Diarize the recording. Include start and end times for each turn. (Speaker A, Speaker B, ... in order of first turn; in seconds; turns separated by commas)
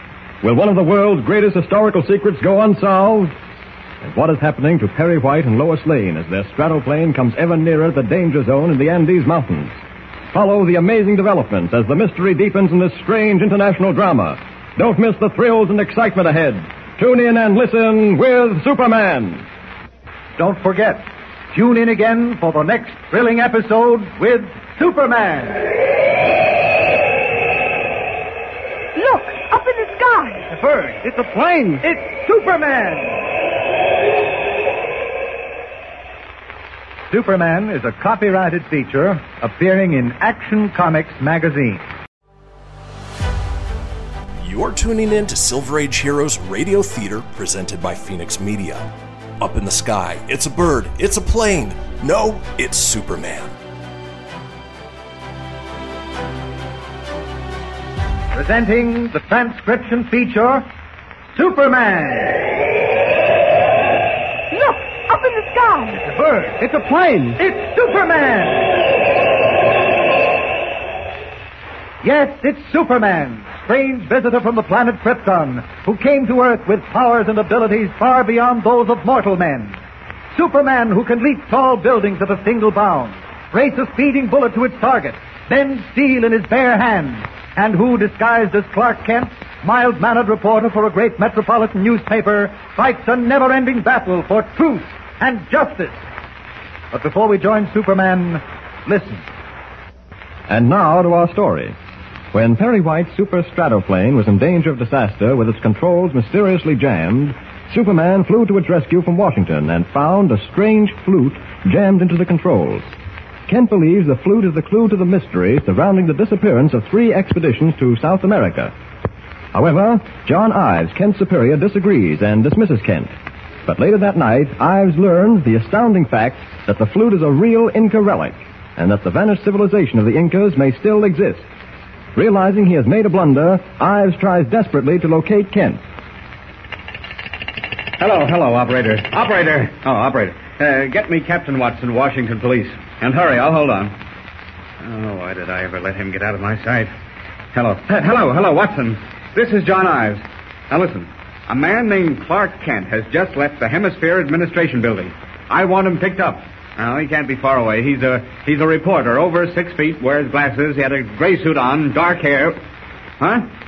Speaker A: 0.4-3.4, Speaker A: 4.0-9.8, Speaker A: 10.3-19.4, Speaker B: 20.4-25.8, Speaker C: 28.9-30.4, Speaker B: 30.5-33.2, Speaker B: 37.1-41.8, Speaker D: 44.4-53.5, Speaker B: 58.3-60.7, Speaker B: 61.4-62.6, Speaker C: 64.5-66.0, Speaker B: 66.0-66.7, Speaker B: 67.3-68.8, Speaker B: 72.0-79.8, Speaker B: 80.3-96.0, Speaker B: 96.9-99.2, Speaker A: 100.5-101.8, Speaker A: 102.3-112.9, Speaker A: 113.5-118.7, Speaker A: 119.5-123.1, Speaker A: 123.7-131.5, Speaker A: 132.1-135.8, Speaker E: 138.0-143.9, Speaker E: 144.8-146.9, Speaker E: 147.5-162.6, Speaker E: 163.2-163.5